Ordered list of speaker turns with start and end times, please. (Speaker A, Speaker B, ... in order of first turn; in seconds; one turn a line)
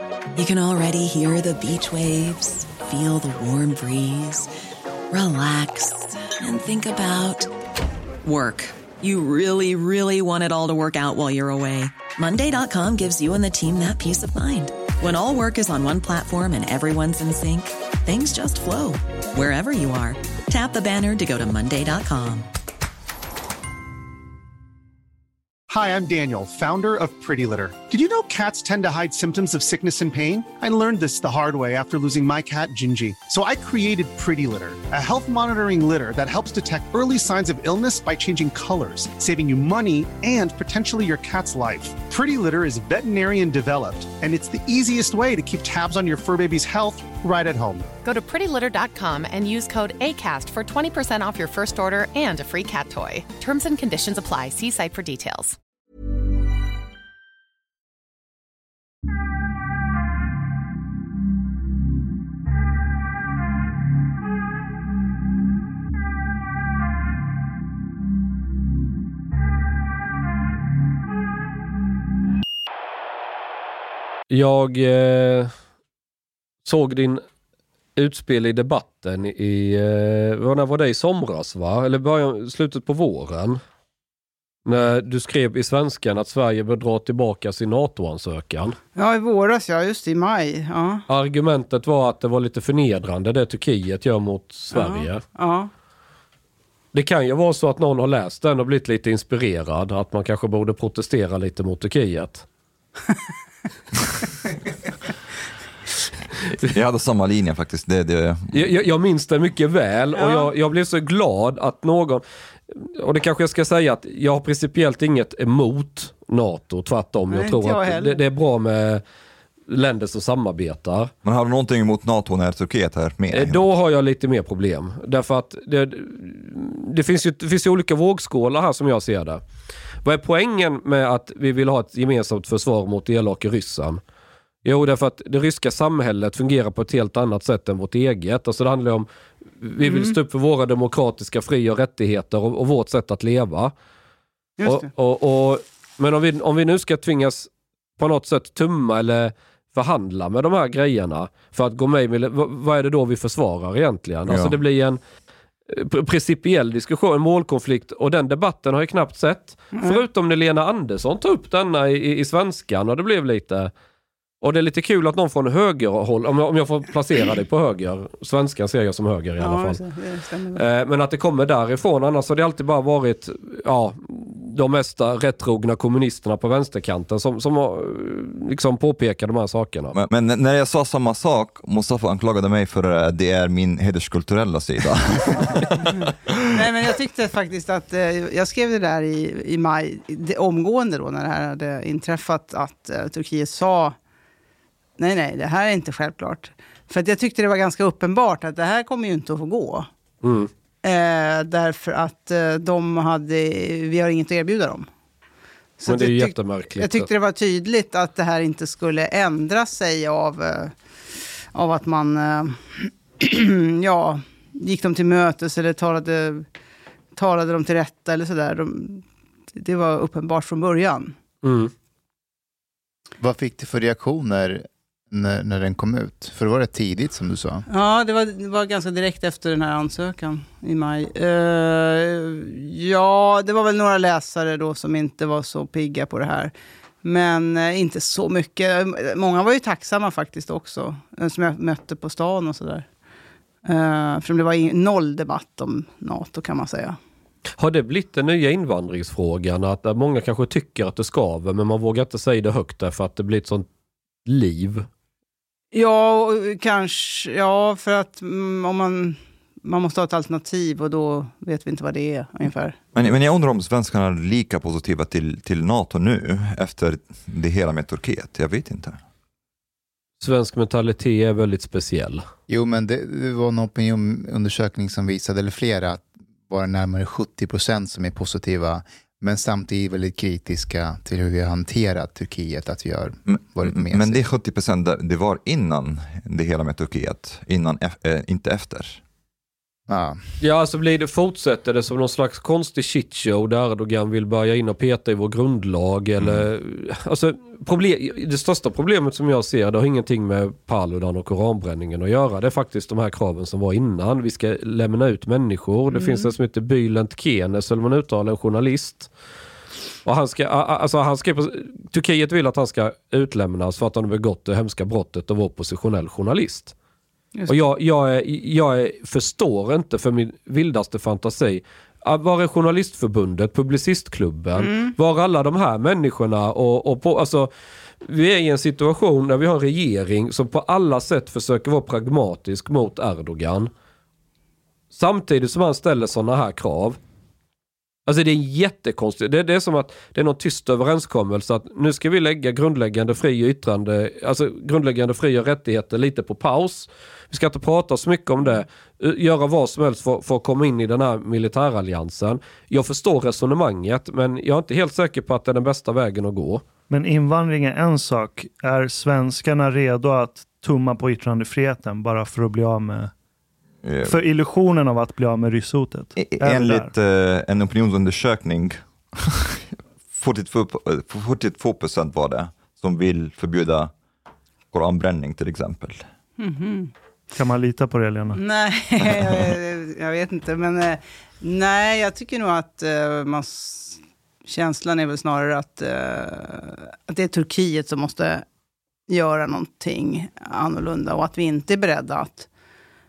Speaker A: 0.3-4.5
Speaker A: 5.1-7.5
Speaker A: 8.2-22.5
Speaker B: 25.7-47.9
Speaker C: 48.0-55.6
Speaker D: 74.3-75.5
Speaker D: 76.7-77.2
Speaker D: 78.0-83.6
Speaker D: 84.7-88.8
Speaker E: 89.0-91.0
Speaker D: 91.1-95.2
Speaker E: 94.7-95.7
Speaker D: 96.9-102.5
Speaker F: 106.6-108.7
Speaker D: 108.5-119.0
Speaker E: 110.2-110.5
Speaker E: 117.3-118.2
Speaker D: 119.7-121.1
Speaker F: 121.2-123.7
Speaker D: 123.3-129.4
Speaker D: 130.0-134.0
Speaker D: 134.6-139.1
Speaker D: 139.6-143.7
Speaker E: 139.8-140.2
Speaker E: 144.6-144.9
Speaker D: 144.7-155.0
Speaker F: 154.3-154.6
Speaker D: 155.7-163.7
Speaker E: 159.7-160.0
Speaker D: 164.4-169.8
Speaker E: 169.4-170.7
Speaker D: 170.6-180.0
Speaker F: 179.9-185.9
Speaker E: 186.5-193.9
Speaker E: 195.0-199.9
Speaker D: 200.2-200.5
Speaker E: 200.8-204.9
Speaker E: 205.8-210.8
Speaker D: 205.8-207.1
Speaker E: 211.5-216.5
Speaker E: 217.2-221.1
Speaker D: 221.4-221.7
Speaker G: 223.2-227.7
Speaker E: 227.7-242.9
Speaker E: 243.7-247.0
Speaker D: 247.6-253.7
Speaker D: 254.3-254.9
Speaker E: 255.7-262.8
Speaker F: 262.9-269.0
Speaker D: 270.2-272.2
Speaker G: 272.5-284.2
Speaker F: 283.3-289.0
Speaker G: 289.9-290.2
Speaker D: 290.4-309.1
Speaker F: 296.2-296.5
Speaker E: 305.9-306.3
Speaker D: 310.1-316.7
Speaker D: 317.5-327.5
Speaker E: 324.6-324.9
Speaker D: 328.0-333.7
Speaker D: 334.9-337.0
Speaker D: 338.1-356.6
Speaker H: 356.9-363.1
Speaker F: 363.8-364.2
Speaker H: 364.1-366.9
Speaker F: 366.2-373.9
Speaker F: 374.7-376.1
Speaker E: 376.4-376.9
Speaker H: 377.4-378.4
Speaker E: 378.3-388.4
Speaker E: 389.1-392.5